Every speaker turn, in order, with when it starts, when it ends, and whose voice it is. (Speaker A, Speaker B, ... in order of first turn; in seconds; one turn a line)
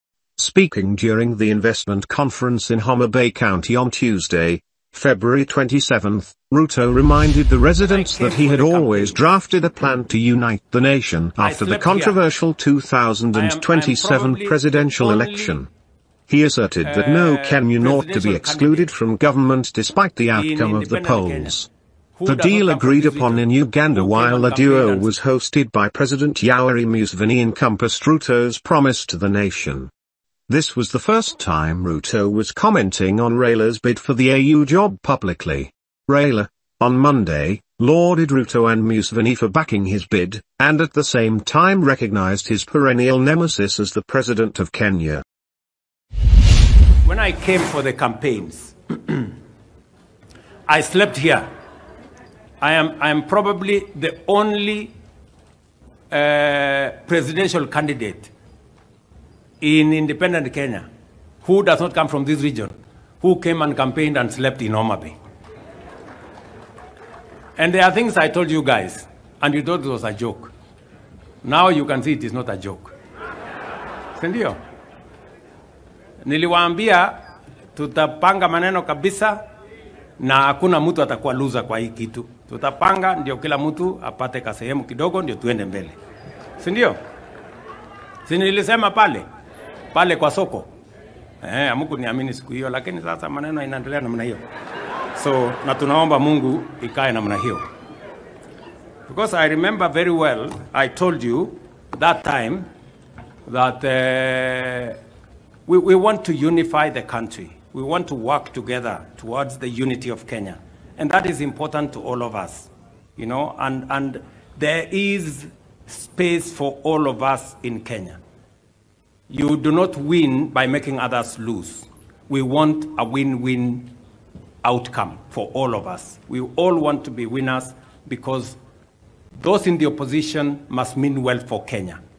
Speaker A: 0.4-15.7
Speaker B: 7.8-9.2
Speaker B: 11.4-12.2
Speaker B: 13.3-15.6
Speaker A: 16.3-21.7
Speaker B: 16.8-18.9
Speaker B: 20.4-21.6
Speaker B: 22.2-25.1
Speaker A: 22.2-29.9
Speaker A: 30.5-45.2
Speaker B: 47.0-49.4
Speaker B: 50.7-51.5
Speaker B: 52.6-54.9
Speaker B: 56.1-58.3
Speaker B: 59.6-60.9
Speaker B: 61.4-65.2
Speaker B: 67.6-70.5
Speaker B: 71.4-72.9
Speaker B: 74.2-74.6
Speaker B: 76.2-77.2
Speaker B: 77.8-79.4
Speaker B: 80.2-86.0
Speaker B: 86.6-87.0
Speaker B: 88.3-89.2
Speaker B: 89.9-90.7
Speaker B: 91.4-94.4
Speaker B: 95.2-97.7
Speaker B: 99.1-102.7
Speaker B: 103.5-105.0
Speaker B: 105.7-118.2
Speaker B: 119.3-123.9
Speaker B: 124.6-128.6
Speaker B: 129.4-132.0